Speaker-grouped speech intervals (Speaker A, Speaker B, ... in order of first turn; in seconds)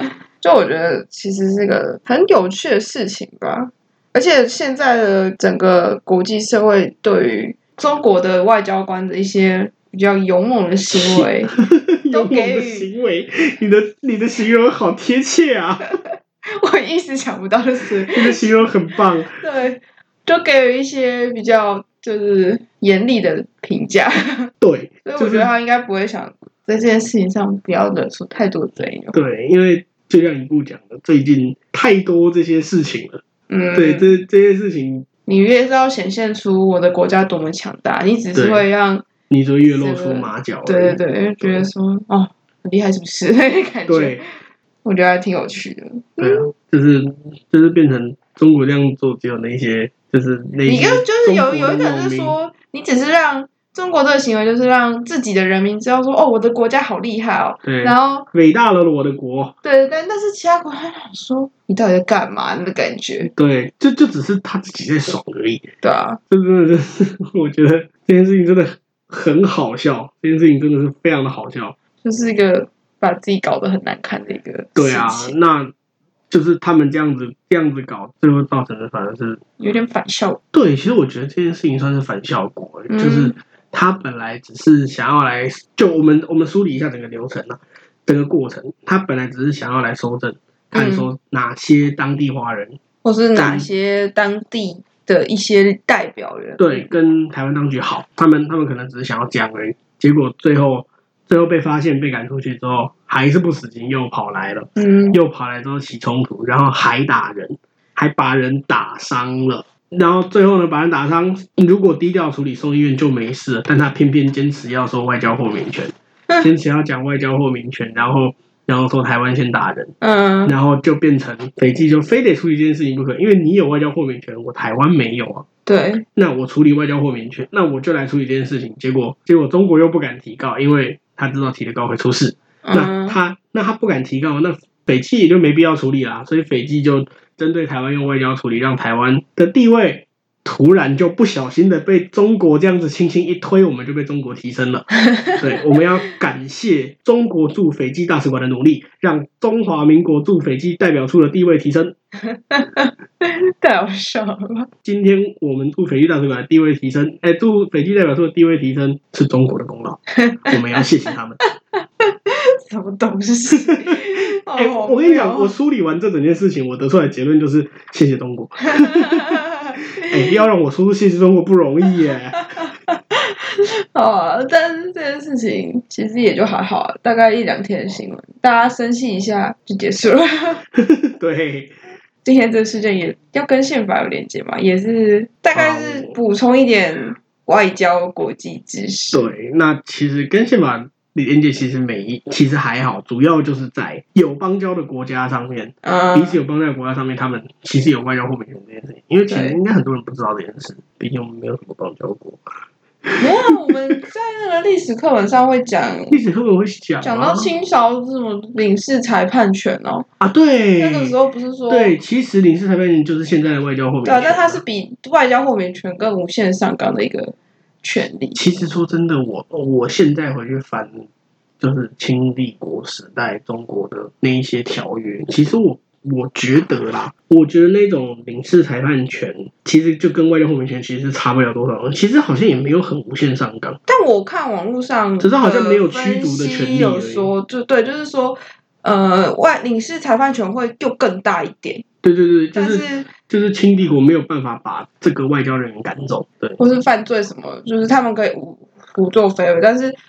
Speaker A: 0.4-11.6, 12.1-12.9, 16.5-18.5, 19.2-24.5, 25.1-29.2, 33.5-34.2, 35.3-39.1, 39.6-44.2, 44.8-46.5, 50.6-58.3, 59.6-63.3, 65.8-66.2, 72.0-75.3, 79.6-80.4, 82.9-83.3, 90.7-91.1, 93.0-96.9, 104.8-105.2, 120.0-120.5, 125.7-126.0, 132.6-133.2, 145.1-145.8, 152.3-154.7, 160.2-160.9, 162.0-165.5, 168.8-170.4, 172.3-180.6, 182.2-189.3, 195.8-196.4, 199.3-199.6, 203.2-206.2, 207.0-210.1, 210.8-212.0, 214.1-218.4, 233.9-241.8, 242.6-243.1, 246.6-250.0
Speaker B: 10.9-16.0, 17.9-19.4, 24.6-25.5, 29.1-33.2, 33.8-35.1, 38.3-38.6, 39.3-41.7, 43.9-44.2, 46.2-52.4, 57.6-59.5, 63.2-65.7, 66.3-71.8, 74.8-75.7, 76.3-79.4, 80.5-92.8, 93.3-93.7, 96.6-119.9, 120.5-125.5, 126.2-152.0, 154.8-161.4, 163.7-172.4, 180.7-181.8, 185.5-186.2, 189.1-202.4, 206.1-207.5, 210.2-211.2, 211.7-214.6, 218.3-221.1, 221.6-233.8, 235.2-237.3, 242.0-246.6